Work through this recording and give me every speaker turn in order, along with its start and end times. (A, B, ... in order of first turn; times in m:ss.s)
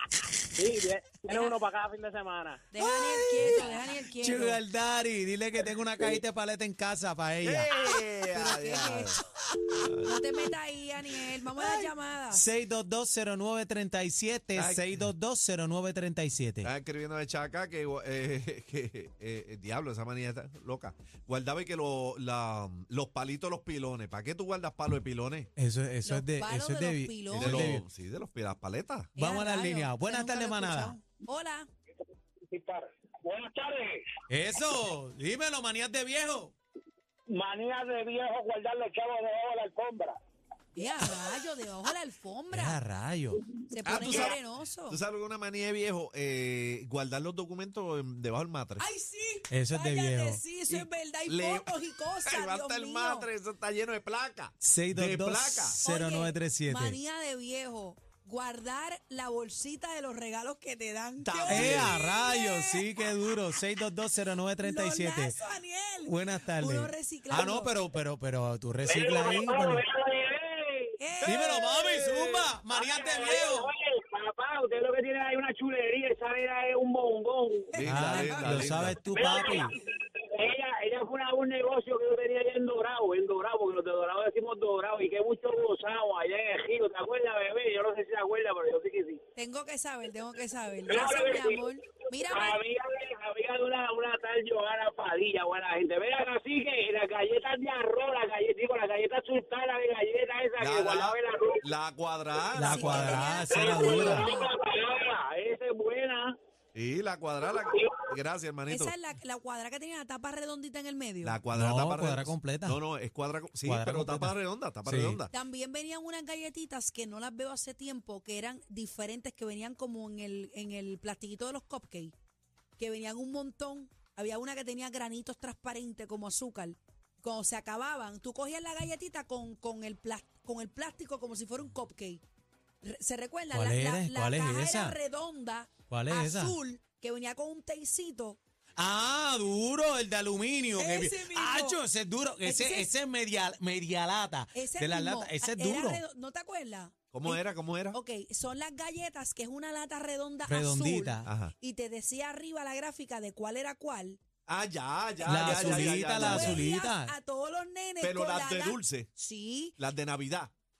0:00.5-0:02.6 A
0:01.3-0:01.6 B
0:02.7-0:04.6 B
0:02.8-0:08.0 C
0:07.4-0:09.1 D
0:08.3-0:09.2 B
0:10.0-0:12.4 B
0:11.6-0:16.7 C
0:14.5-0:14.8 D
0:16.6-0:25.5 D
0:25.6-0:27.8 C
0:26.0-0:27.7 B
0:27.3-0:29.1 D
0:29.2-0:31.0 C
0:29.2-0:31.7 B
0:32.5-0:32.8 A
0:33.5-0:33.9 A
0:34.3-0:36.5 C
0:37.3-0:40.0 A
0:40.7-0:42.8 B
0:42.5-0:43.4 C
0:43.6-0:45.0 B
0:43.8-0:44.4 D
0:44.9-0:48.8 D
0:48.8-0:53.3 B
0:49.5-0:50.4 C
0:51.3-0:55.8 D
0:54.6-0:57.0 C
0:55.8-1:02.8 B
1:01.2-1:02.0 D
1:01.5-1:05.4 C
1:04.6-1:07.7 B
1:06.0-1:09.8 C
1:08.8-1:17.8 A
1:11.0-1:11.7 B
1:11.2-1:13.7 C
1:17.7-1:18.5 B
1:17.8-1:19.0 D
1:17.8-1:19.7 C
1:19.1-1:29.2 A
1:29.4-1:32.6 B
1:30.9-1:31.6 A
1:32.2-1:41.6 A
1:40.6-1:44.2 D
1:42.5-1:44.3 C
1:42.7-1:44.5 B
1:43.1-1:46.4 A
1:46.7-1:48.9 D
1:48.7-1:51.4 B
1:51.2-1:55.3 D
1:51.5-1:52.8 C
1:53.6-1:55.2 C
1:55.3-2:02.1 B
2:02.8-2:12.2 B
2:12.8-2:18.4 B
2:13.5-2:15.0 C
2:15.9-2:16.6 C
2:18.8-2:26.0 C
2:20.8-2:21.8 B
2:22.4-2:22.9 B
2:24.5-2:34.2 B
2:27.1-2:28.0 D
2:30.5-2:31.3 C
2:31.2-2:31.5 D
2:34.4-2:36.7 D
2:35.2-2:39.8 B
2:35.2-2:37.1 C
2:38.0-2:39.1 D
2:39.8-2:40.5 D